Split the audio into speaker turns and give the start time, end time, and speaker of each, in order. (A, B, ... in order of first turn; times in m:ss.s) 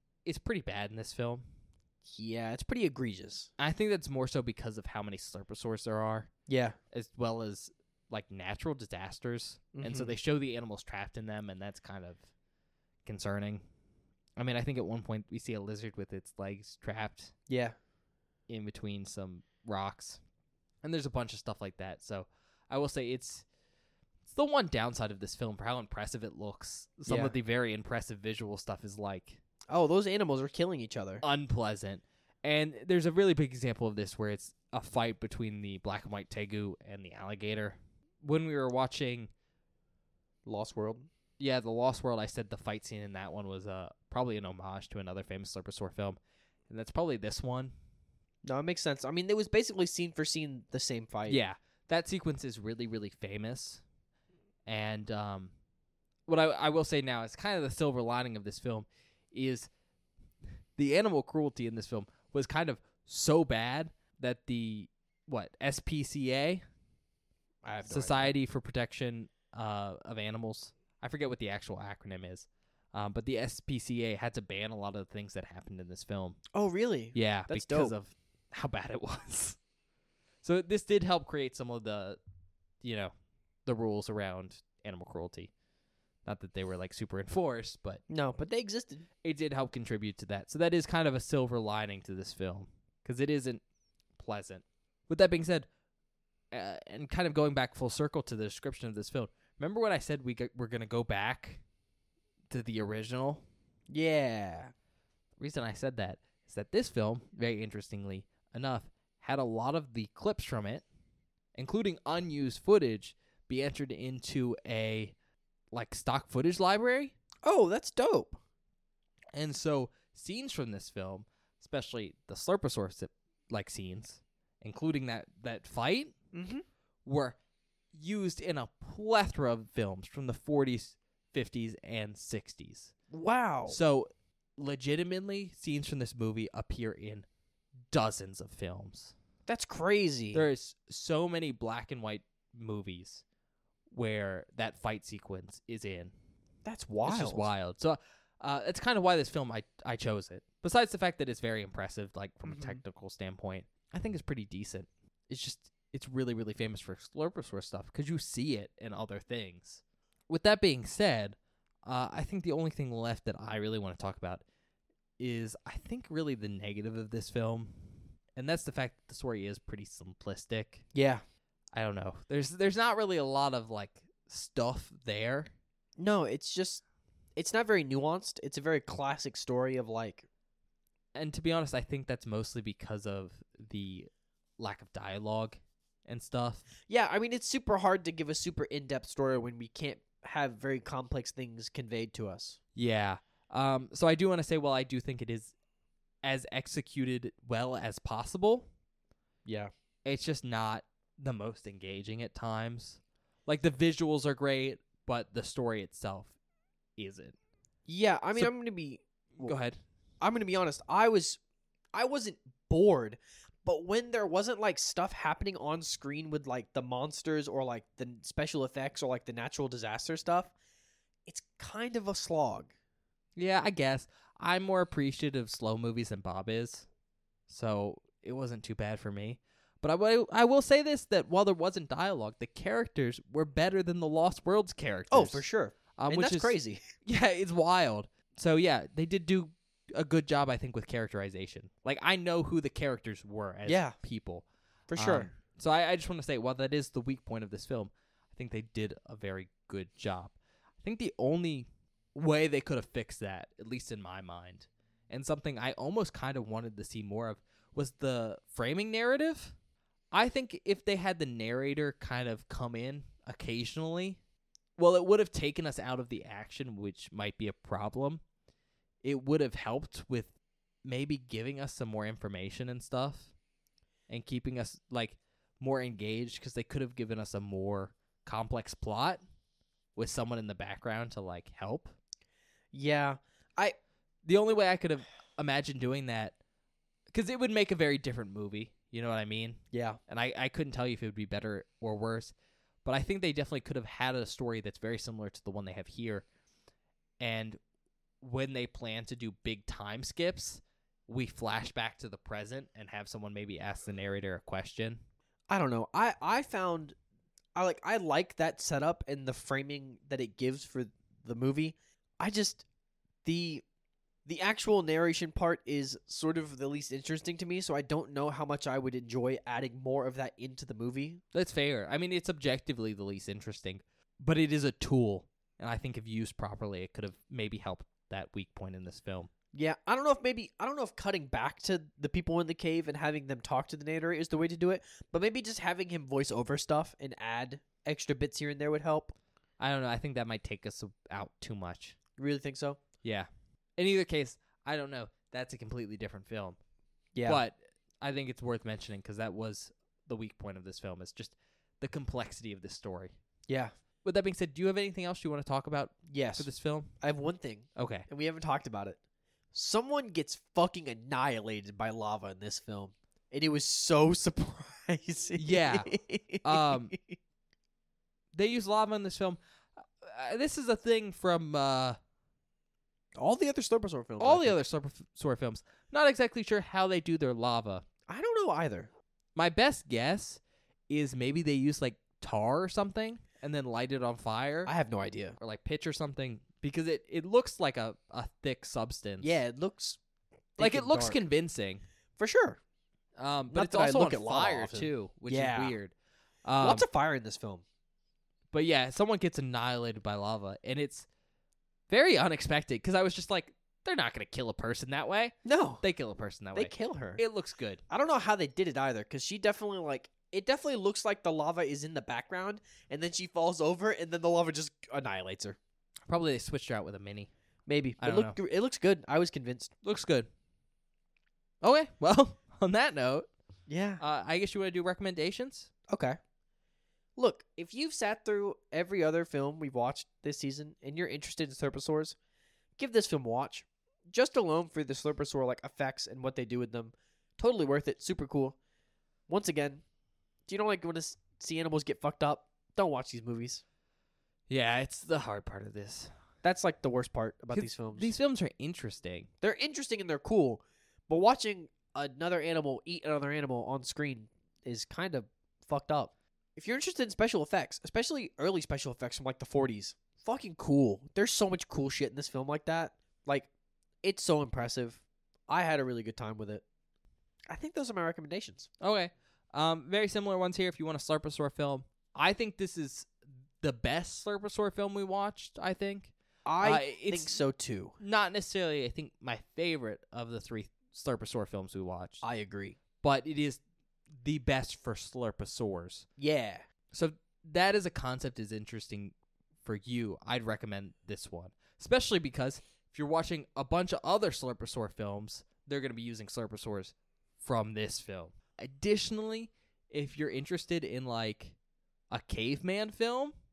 0:00.2-0:01.4 A
0:02.0-0:03.5 B
0:03.6-0:06.3 A
0:06.5-0:06.8 B
0:06.9-0:12.2 A
0:09.7-0:10.1 B
0:13.0-0:13.6 A
0:14.4-0:17.3 A
0:17.5-0:17.8 B
0:18.5-0:20.2 A
0:20.8-0:23.4 A
0:24.2-0:29.4 A
0:27.1-0:27.4 B
0:29.7-0:31.2 B
0:31.2-0:39.3 A
0:40.5-0:41.1 B
0:41.4-0:47.7 A
0:48.4-0:51.4 B
0:51.3-0:53.8 A
0:54.6-0:55.5 A
0:56.3-0:59.7 A
1:00.8-1:06.6 A
1:07.6-1:08.3 B
1:07.9-1:16.4 A
1:16.5-1:17.9 B
1:17.1-1:19.6 A
1:20.4-1:22.2 A
1:22.8-1:23.1 A
1:23.6-1:25.5 A
1:26.2-1:28.0 A
1:28.1-1:29.1 B
1:29.2-1:33.6 A
1:34.2-1:35.7 A
1:36.5-1:41.6 A
1:42.5-1:43.4 A
1:43.9-1:44.7 B
1:45.4-1:50.8 A
1:51.5-1:55.2 A
1:55.7-1:57.2 A
1:57.4-1:58.4 B
1:59.3-2:06.1 A
2:06.3-2:06.6 B
2:07.0-2:07.4 A
2:07.9-2:12.9 A
2:13.1-2:13.8 B
2:13.7-2:17.2 A
2:17.9-2:19.1 A
2:19.5-2:20.5 B
2:20.3-2:23.2 A
2:23.9-2:26.1 A
2:26.6-2:27.5 B
2:27.1-2:44.4 A
2:32.4-2:32.8 B
2:45.2-2:50.8 A
2:50.9-2:51.2 B
2:51.7-2:55.5 A
2:56.0-2:56.8 B
2:57.4-3:00.3 B
3:01.2-3:06.6 A
3:06.9-3:12.6 B
3:12.8-3:15.5 A
3:16.2-3:18.7 A
3:19.5-3:19.7 B
3:20.0-3:26.4 A
3:27.0-3:27.4 A
3:27.9-3:29.6 B
3:29.4-3:29.8 A
3:30.2-3:31.4 B
3:31.9-3:40.5 B
3:41.3-3:42.7 B
3:43.4-3:46.9 A
3:47.5-3:55.4 A
3:55.1-3:56.8 B
3:56.0-4:19.5 A
4:03.6-4:04.0 B
4:04.9-4:05.3 B
4:20.1-4:24.2 A
4:24.8-4:28.2 A
4:29.0-4:30.3 A
4:30.8-4:33.3 A
4:34.1-4:39.2 A
4:40.0-4:41.9 A
4:42.7-4:43.8 B
4:44.2-4:46.4 A
4:47.1-4:52.3 A
4:49.7-4:50.0 B
4:52.8-4:56.2 A
4:57.2-4:57.6 A
4:58.2-5:05.0 A
5:05.5-5:07.0 B
5:07.5-5:12.6 B
5:13.2-5:13.6 B
5:14.2-5:21.2 B
5:21.3-5:29.3 A
5:29.5-5:39.2 B
5:39.6-5:42.0 A
5:42.2-5:42.8 B
5:43.0-5:46.6 A
5:47.2-5:47.4 B
5:47.2-5:53.1 A
5:53.5-5:53.7 B
5:54.0-5:56.9 A
5:56.1-5:56.5 B
5:57.0-5:59.0 B
5:57.8-5:58.1 A
5:59.5-6:07.2 B
6:05.4-6:05.9 A
6:06.4-6:06.9 A
6:08.3-6:09.4 A
6:10.0-6:12.0 A
6:13.2-6:14.6 B
6:14.2-6:17.8 A
6:18.1-6:18.9 B
6:19.4-6:24.7 A
6:24.6-6:25.4 B
6:25.4-6:29.4 A
6:29.2-6:30.0 B
6:30.6-6:31.2 B
6:30.6-6:31.8 A
6:32.2-6:32.6 B
6:33.2-6:35.9 A
6:33.5-6:35.8 B
6:36.4-6:36.8 A
6:36.6-6:37.6 B
6:38.5-6:41.1 A
6:41.9-6:47.8 A
6:45.4-6:45.8 B
6:46.5-6:47.2 B
6:47.9-6:55.6 B
6:56.1-6:57.3 A
6:57.7-6:59.7 B
6:58.0-6:58.4 A
6:59.8-7:00.3 A
7:01.6-7:03.3 A
7:03.7-7:04.0 B
7:04.0-7:05.7 A
7:05.9-7:06.2 B
7:07.2-7:12.2 B
7:12.8-7:18.6 B
7:19.3-7:19.8 B
7:20.5-7:23.6 B
7:24.5-7:26.1 A
7:26.4-7:28.1 B
7:27.5-7:29.3 A
7:29.4-7:43.5 B
7:44.0-7:46.6 B
7:47.5-7:48.7 B
7:48.8-7:53.1 A
7:53.6-7:57.3 A
7:56.5-7:58.0 B
7:58.0-8:02.2 A
8:02.2-8:02.8 B
8:03.0-8:03.6 A
8:04.1-8:06.1 A
8:06.2-8:06.6 B
8:06.9-8:09.1 A
8:09.6-8:21.6 A
8:22.1-8:23.3 A